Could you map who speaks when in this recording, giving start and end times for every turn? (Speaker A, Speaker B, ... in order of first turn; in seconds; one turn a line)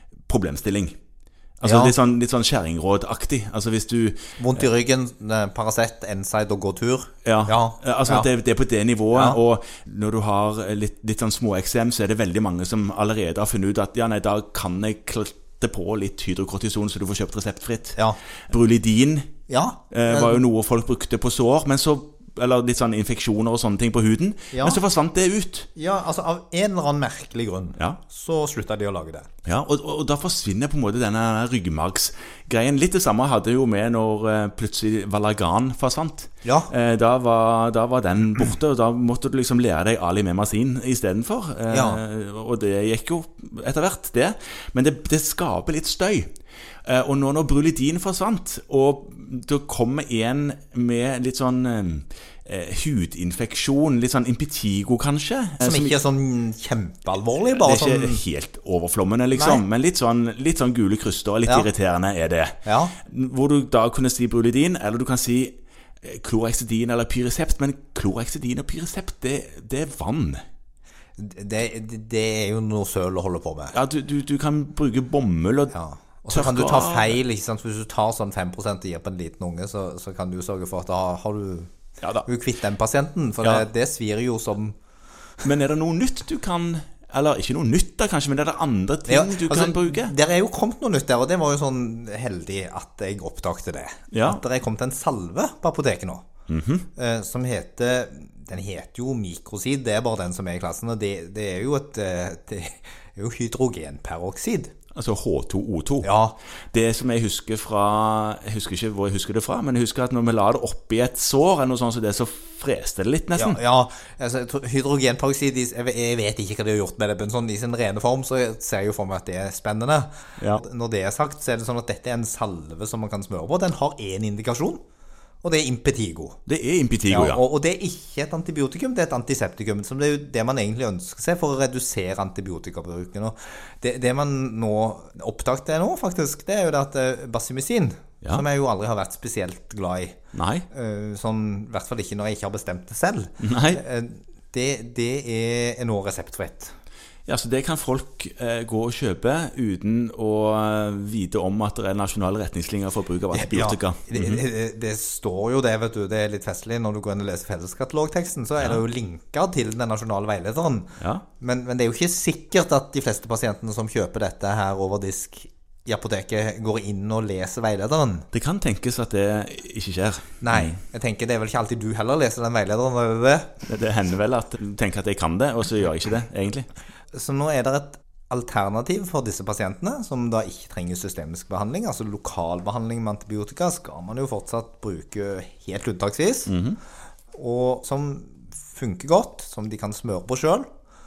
Speaker A: 0.3-1.0
Speaker A: 1.6-4.6
Speaker B: 1.6-1.9
Speaker B: 4.4-8.3
Speaker A: 7.2-19.3
Speaker B: 9.1-9.4
Speaker B: 19.5-20.4
Speaker A: 19.9-25.7
Speaker B: 24.5-24.8
Speaker B: 25.8-29.3
Speaker A: 29.4-46.3
Speaker B: 36.4-36.7
Speaker B: 41.7-42.0
Speaker A: 46.9-56.0
Speaker B: 55.6-58.2
Speaker A: 57.4-70.4
Speaker B: 59.4-59.6
Speaker B: 62.6-63.0
Speaker B: 71.2-73.8
Speaker A: 73.7-75.8
Speaker B: 75.7-81.7
Speaker A: 76.3-77.2
Speaker A: 82.0-82.3
Speaker B: 82.2-84.8
Speaker A: 85.4-90.1
Speaker B: 89.1-96.3
Speaker A: 94.1-94.4
Speaker A: 96.5-96.9
Speaker B: 97.0-104.7
Speaker A: 104.9-106.1
Speaker B: 106.0-106.4
Speaker A: 106.7-113.6
Speaker B: 113.4-124.8
Speaker B: 125.4-126.4
Speaker A: 126.5-127.4
Speaker B: 127.1-140.2
Speaker A: 140.3-140.7
Speaker B: 140.7-146.7
Speaker A: 143.4-143.8
Speaker A: 147.3-154.4
Speaker B: 153.3-168.3
Speaker A: 161.0-161.2
Speaker A: 168.3-170.8
Speaker B: 170.4-173.5
Speaker A: 173.7-176.7
Speaker B: 177.1-186.5
Speaker A: 186.5-186.8
Speaker B: 187.3-190.7